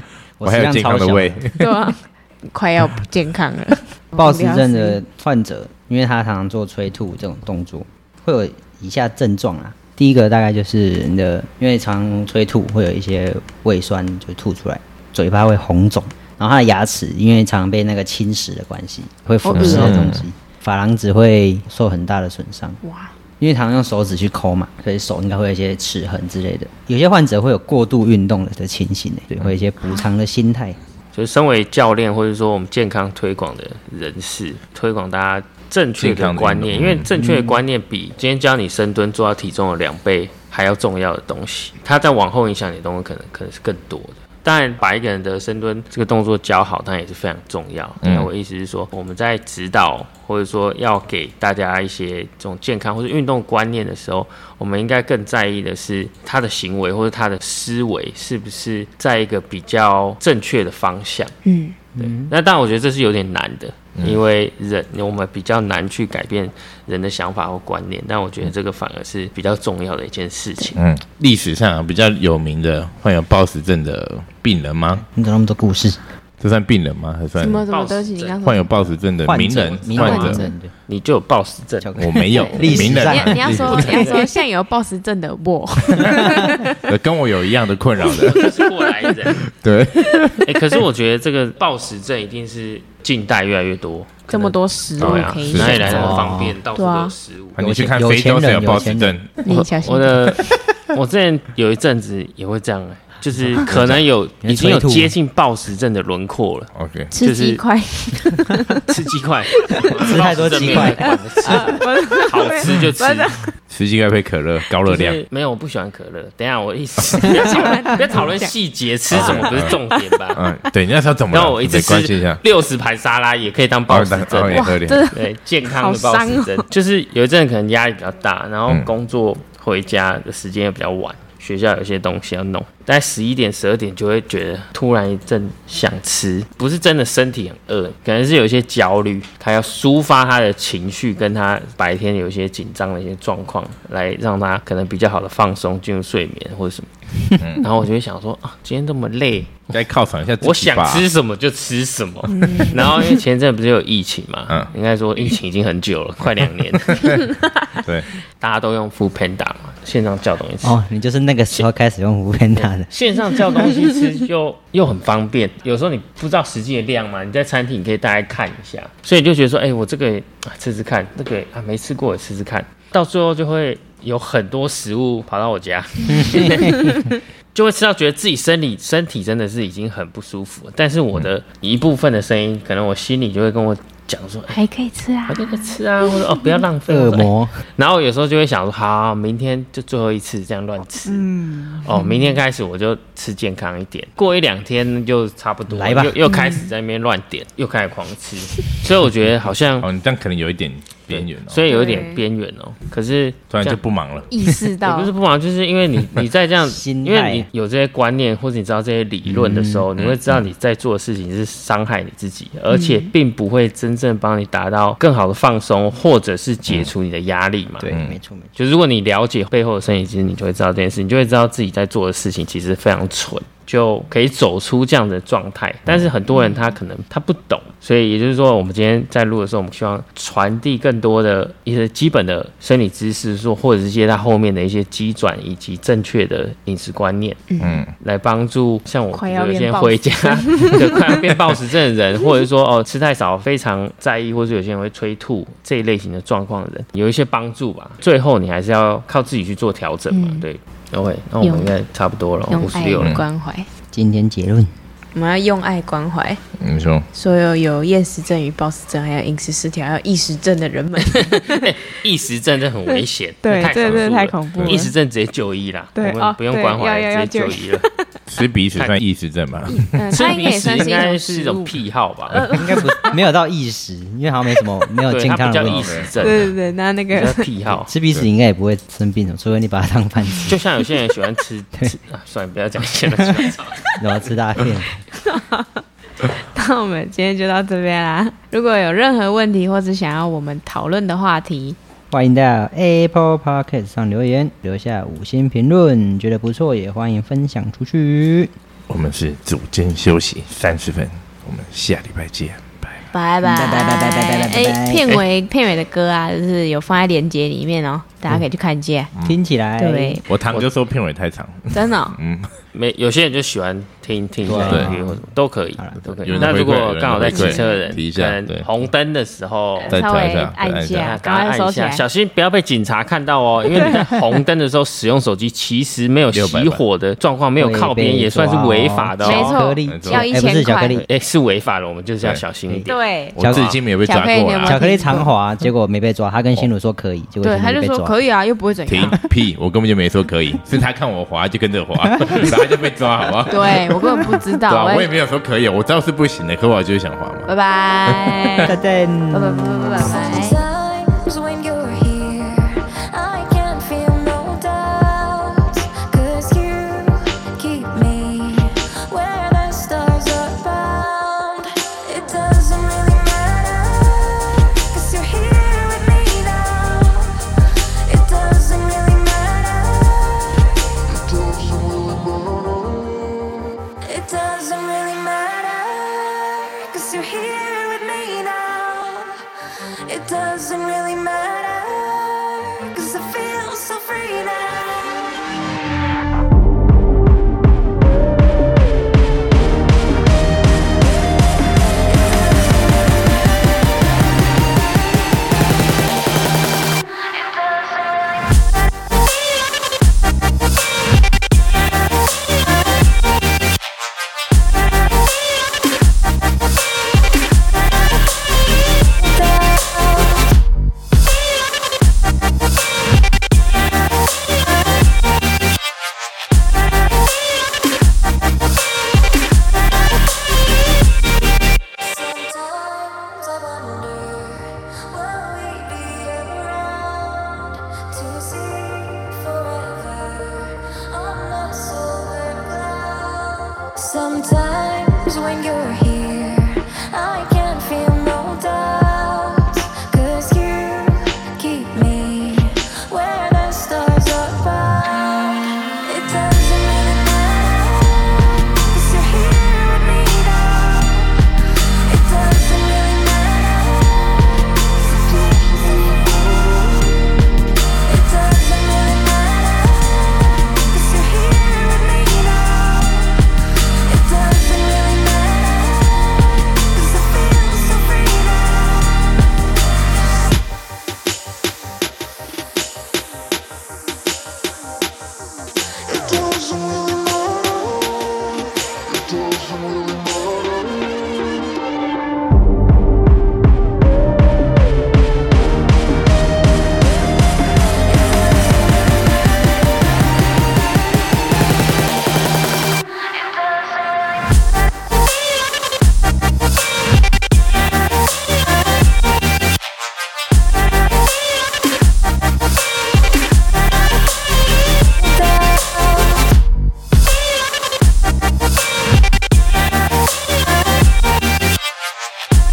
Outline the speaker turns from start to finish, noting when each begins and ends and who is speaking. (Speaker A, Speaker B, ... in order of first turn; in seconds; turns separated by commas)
Speaker A: 0.4-1.5, Speaker B: 0.4-1.7, Speaker C: 1.6-5.0, Speaker A: 4.2-22.8, Speaker C: 19.4-20.1, Speaker B: 19.6-20.2, Speaker C: 22.8-23.1, Speaker A: 23.4-30.8, Speaker D: 31.1-61.4, Speaker B: 36.0-37.1, Speaker A: 37.1-37.6, Speaker B: 48.0-48.3, Speaker C: 61.5-61.8, Speaker A: 62.0-62.3, Speaker D: 62.0-70.8, Speaker B: 70.8-75.0, Speaker A: 75.1-76.0, Speaker B: 76.4-77.7, Speaker C: 77.4-78.7, Speaker D: 77.7-78.4, Speaker B: 78.4-80.4, Speaker A: 79.2-80.7, Speaker D: 79.8-82.0, Speaker C: 80.0-80.5, Speaker A: 81.8-84.1, Speaker B: 82.0-84.0, Speaker C: 82.3-86.8, Speaker D: 83.5-84.3, Speaker B: 86.9-88.5, Speaker D: 88.1-89.4, Speaker B: 89.3-90.5, Speaker C: 90.1-90.4, Speaker D: 90.4-97.6, Speaker C: 94.3-96.2, Speaker B: 95.0-96.3, Speaker A: 95.7-96.6, Speaker C: 96.8-97.1, Speaker B: 97.6-99.4, Speaker A: 97.6-99.2, Speaker C: 99.4-100.6, Speaker D: 99.5-107.6, Speaker B: 103.7-104.0, Speaker A: 104.4-105.2, Speaker B: 106.8-107.1, Speaker C: 107.1-108.9, Speaker D: 108.9-113.4, Speaker C: 109.6-110.1, Speaker A: 110.0-111.8, Speaker C: 110.6-113.5, Speaker B: 113.7-115.2, Speaker D: 114.8-120.4, Speaker C: 117.3-118.5, Speaker B: 119.1-119.8, Speaker B: 120.3-122.4, Speaker D: 121.3-146.9, Speaker B: 123.9-125.1, Speaker C: 124.5-126.7, Speaker B: 147.4-147.7, Speaker D: 147.6-149.7, Speaker B: 149.7-151.1, Speaker D: 150.4-157.2, Speaker C: 152.3-153.2, Speaker B: 156.9-158.1, Speaker D: 158.4-160.8, Speaker A: 160.6-162.9, Speaker D: 162.5-184.6, Speaker A: 176.1-177.0, Speaker C: 176.2-177.0, Speaker C: 184.5-185.8, Speaker D: 185.3-199.9, Speaker A: 186.9-187.6, Speaker C: 191.4-192.4, Speaker A: 195.7-196.2, Speaker C: 196.2-196.7, Speaker B: 199.8-201.6, Speaker D: 201.1-203.8, Speaker C: 201.7-202.2, Speaker B: 203.5-204.3, Speaker C: 204.3-205.1, Speaker D: 204.8-217.9, Speaker A: 206.6-207.5, Speaker A: 209.3-209.8, Speaker B: 210.0-210.5, Speaker C: 212.7-213.1, Speaker A: 217.8-218.5, Speaker B: 217.9-218.2, Speaker D: 218.6-237.5, Speaker C: 226.3-226.6, Speaker C: 237.5-237.8, Speaker B: 237.6-237.9, Speaker D: 238.0-253.1, Speaker C: 239.1-241.1, Speaker C: 250.1-250.4, Speaker C: 251.4-251.7, Speaker C: 252.5-253.7, Speaker A: 253.9-254.7, Speaker C: 255.1-256.4, Speaker B: 256.6-257.1, Speaker C: 257.1-261.7, Speaker D: 261.1-267.9, Speaker C: 262.9-264.9, Speaker B: 263.8-264.1, Speaker C: 266.0-268.0, Speaker B: 268.3-270.1, Speaker C: 269.7-271.8, Speaker D: 270.1-272.5, Speaker C: 272.3-273.2, Speaker A: 272.4-276.3, Speaker D: 275.1-276.5, Speaker C: 276.2-277.4, Speaker D: 277.1-277.9, Speaker A: 277.7-280.6, Speaker D: 280.5-283.8, Speaker A: 283.2-284.9, Speaker C: 285.1-291.8, Speaker A: 292.1-298.5, Speaker B: 298.9-303.0, Speaker C: 303.1-309.1, Speaker A: 303.4-305.0, Speaker A: 309.2-310.7, Speaker C: 309.8-310.2, Speaker B: 310.3-312.5, Speaker C: 311.7-312.2, Speaker D: 312.7-320.0, Speaker A: 314.4-316.0, Speaker B: 314.5-314.9, Speaker B: 316.0-318.7, Speaker C: 317.2-318.0, Speaker C: 319.8-322.0, Speaker B: 319.9-321.1, Speaker D: 321.0-329.6, Speaker B: 326.3-326.8, Speaker A: 327.6-331.1, Speaker C: 329.2-331.1, Speaker B: 329.9-330.3, Speaker D: 331.1-332.9, Speaker A: 332.7-333.7, Speaker C: 332.9-333.4, Speaker B: 333.4-334.8, Speaker D: 333.5-333.8, Speaker C: 334.0-335.3, Speaker A: 334.6-338.2, Speaker C: 337.4-339.2, Speaker B: 338.9-343.9, Speaker C: 343.5-345.1, Speaker B: 344.7-347.5, Speaker C: 347.5-348.8, Speaker B: 348.1-348.7, Speaker A: 348.6-350.1, Speaker C: 349.3-350.6, Speaker E: 350.0-367.4, Speaker E: 368.1-379.4, Speaker E: 380.1-385.5, Speaker E: 392.1-393.2, Speaker E: 397.2-398.4, Speaker E: 409.1-410.5, Speaker E: 422.0-451.4, Speaker E: 452.1-457.5, Speaker E: 458.0-463.5, Speaker E: 464.1-469.5, Speaker E: 476.1-478.5, Speaker E: 505.2-506.5